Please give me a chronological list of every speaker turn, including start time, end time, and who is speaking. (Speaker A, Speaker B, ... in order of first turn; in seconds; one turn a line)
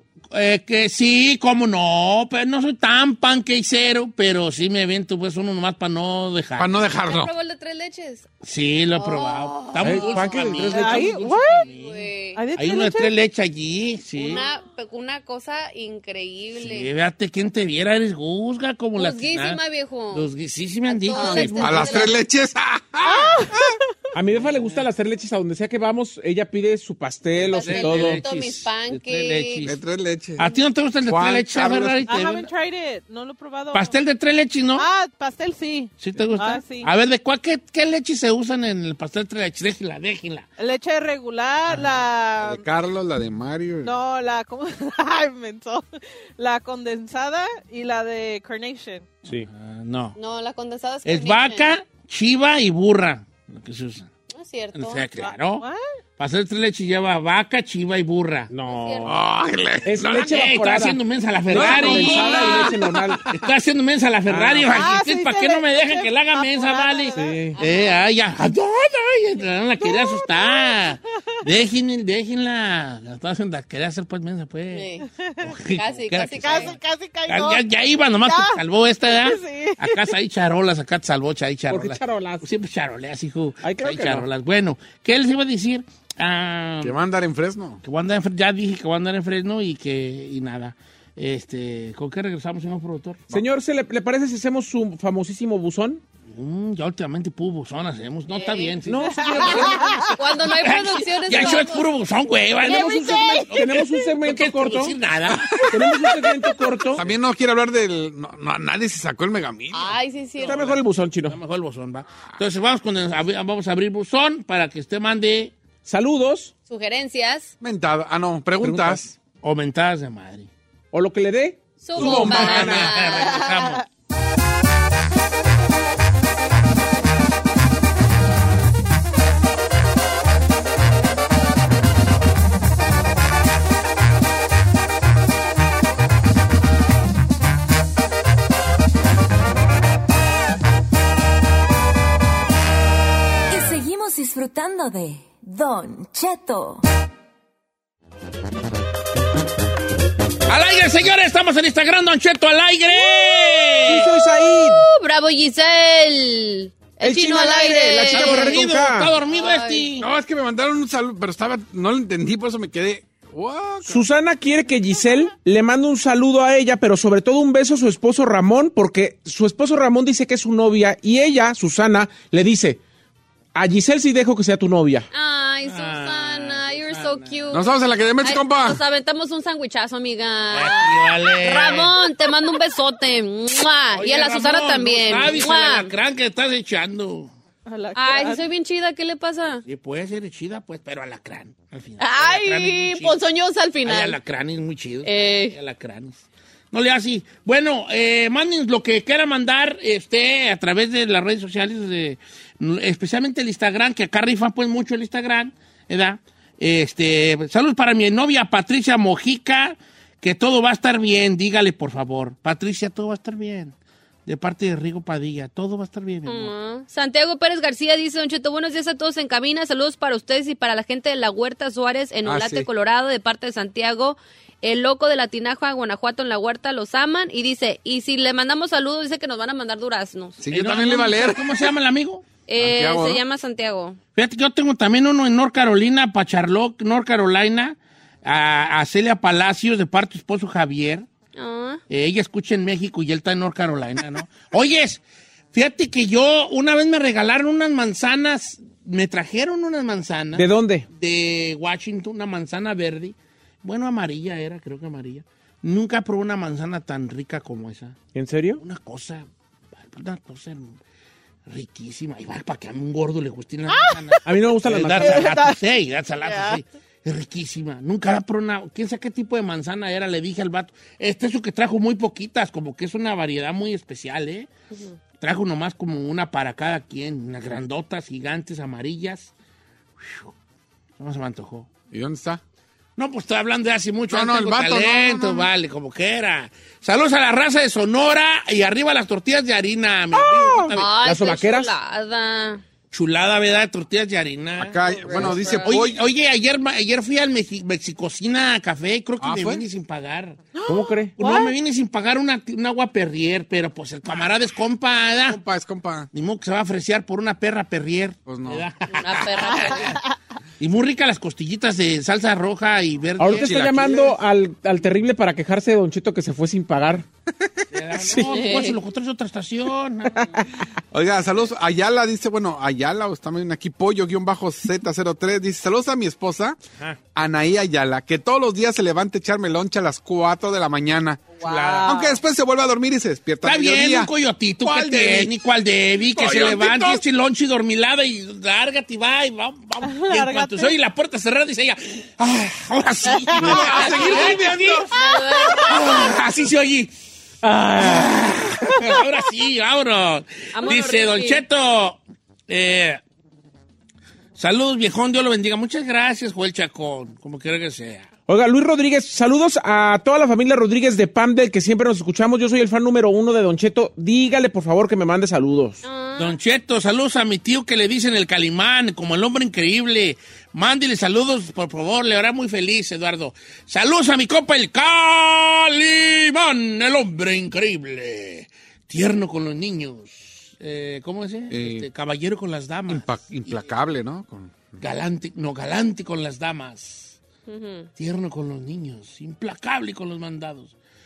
Speaker A: 0.3-6.8
Speaker B: 6.6-7.3
Speaker C: 7.0-8.3
Speaker A: 8.4-14.4
Speaker C: 8.9-11.0
Speaker D: 9.8-11.1
Speaker E: 10.7-11.7
Speaker C: 11.7-12.4
Speaker E: 12.3-13.1
Speaker C: 14.2-16.9
Speaker A: 16.6-19.6
Speaker C: 18.9-20.3
Speaker A: 20.1-22.1
Speaker C: 20.9-22.2
Speaker B: 21.2-23.8
Speaker E: 23.0-23.7
Speaker D: 24.1-28.2
Speaker A: 24.3-24.8
Speaker A: 27.4-29.8
Speaker C: 27.4-29.6
Speaker B: 29.6-30.5
Speaker A: 30.4-32.5
Speaker B: 31.1-32.1
Speaker E: 32.1-34.0
Speaker A: 33.7-34.8
Speaker E: 34.8-36.9
Speaker A: 36.0-40.5
Speaker E: 40.6-42.6
Speaker B: 42.4-43.9
Speaker E: 43.8-49.2
Speaker A: 49.5-50.2
Speaker C: 50.1-51.7
Speaker A: 51.0-54.1
Speaker C: 54.3-55.2
Speaker A: 54.7-55.6
Speaker E: 55.2-55.8
Speaker A: 56.2-58.5
Speaker D: 58.5-59.1
Speaker C: 58.6-59.2
Speaker B: 59.0-60.3
Speaker D: 59.8-63.2
Speaker A: 60.2-74.9
Speaker B: 61.5-62.6
Speaker E: 62.1-62.5
Speaker D: 64.3-64.7
Speaker E: 64.6-67.4
Speaker D: 67.1-67.6
Speaker C: 67.5-68.0
Speaker E: 69.8-70.9
Speaker C: 74.7-75.0
Speaker E: 75.1-75.5
Speaker A: 75.4-76.8
Speaker C: 75.7-76.7
Speaker E: 76.3-77.7
Speaker A: 77.3-87.0
Speaker E: 78.2-80.1
Speaker D: 81.7-82.5
Speaker D: 83.6-84.3
Speaker B: 86.8-87.8
Speaker A: 87.8-93.2
Speaker D: 93.3-96.0
Speaker A: 96.3-106.1
Speaker C: 98.3-101.9
Speaker D: 98.8-100.1
Speaker E: 99.3-100.0
Speaker C: 102.6-103.8
Speaker D: 103.5-105.0
Speaker D: 105.5-107.1
Speaker B: 106.9-110.0
Speaker C: 109.7-110.6
Speaker D: 110.4-111.4
Speaker A: 110.4-115.5
Speaker D: 115.8-116.5
Speaker C: 116.7-117.5
Speaker B: 117.6-119.1
Speaker D: 118.6-119.0
Speaker A: 119.4-120.5
Speaker D: 120.9-123.0
Speaker C: 121.8-123.7
Speaker A: 122.0-123.8
Speaker E: 123.3-123.7
Speaker F: 143.5-146.8
Speaker A: 150.5-154.1
Speaker D: 153.8-154.8
Speaker C: 154.4-158.6
Speaker D: 157.0-159.2
Speaker A: 158.1-160.1
Speaker C: 159.3-159.9
Speaker B: 160.0-164.0
Speaker D: 163.8-172.8
Speaker D: 173.5-175.1
Speaker C: 175.1-185.9
Speaker A: 175.6-177.5
Speaker B: 177.5-178.8
Speaker A: 180.5-181.9
Speaker A: 183.9-187.3
Speaker E: 187.7-188.4
Speaker C: 187.9-189.6
Speaker A: 189.6-193.1
Speaker C: 192.0-194.2
Speaker A: 193.8-196.2
Speaker C: 195.0-195.6
Speaker A: 196.7-213.7
Speaker A: 214.2-216.5
Speaker C: 216.2-230.4
Speaker B: 222.2-222.7
Speaker B: 230.4-231.7
Speaker A: 230.5-232.2
Speaker C: 232.5-234.0
Speaker B: 232.6-233.2
Speaker A: 234.2-241.1
Speaker C: 241.3-241.8
Speaker A: 241.9-245.0
Speaker A: 245.5-257.9
Speaker D: 250.3-250.9
Speaker D: 258.1-258.6
Speaker A: 258.6-259.2
Speaker A: 259.9-260.7
Speaker A: 261.5-274.5
Speaker E: 263.7-264.1
Speaker D: 264.2-265.4
Speaker E: 264.9-265.6
Speaker E: 266.2-266.6
Speaker A: 275.2-279.3
Speaker A: 280.0-280.3
Speaker A: 281.0-281.7
Speaker B: 281.9-282.4
Speaker A: 283.0-290.9
Speaker B: 284.1-285.5
Speaker E: 290.2-290.7
Speaker C: 290.7-292.6
Speaker D: 291.0-291.7
Speaker A: 292.9-300.6
Speaker B: 294.6-296.1
Speaker C: 294.9-295.8
Speaker B: 299.2-299.6
Speaker E: 300.5-301.6
Speaker D: 300.6-301.1
Speaker A: 301.2-305.4
Speaker B: 305.3-306.1
Speaker A: 306.1-310.0
Speaker B: 308.2-309.2
Speaker C: 308.9-310.0
Speaker A: 310.6-313.6
Speaker D: 313.2-317.1
Speaker B: 313.3-314.1
Speaker A: 317.7-320.4
Speaker D: 318.0-318.4
Speaker C: 318.3-318.8
Speaker D: 320.1-320.5
Speaker B: 320.9-326.6
Speaker B: 327.1-331.3
Speaker E: 331.3-332.1
Speaker A: 331.4-332.1
Speaker B: 331.8-335.3
Speaker A: 333.4-344.9
Speaker B: 336.0-337.0
Speaker E: 339.8-340.7
Speaker E: 343.2-344.1
Speaker B: 343.4-344.9
Speaker C: 343.8-344.4
Speaker C: 344.9-346.1
Speaker E: 345.4-345.8
Speaker A: 345.6-346.9
Speaker D: 347.4-348.1
Speaker A: 347.7-353.0
Speaker C: 350.5-351.4
Speaker A: 354.3-358.1
Speaker D: 358.3-365.8
Speaker C: 365.8-366.4
Speaker A: 366.2-383.6
Speaker B: 381.5-381.9
Speaker B: 382.9-384.8
Speaker A: 384.8-387.2
Speaker C: 387.5-387.9
Speaker A: 388.0-390.7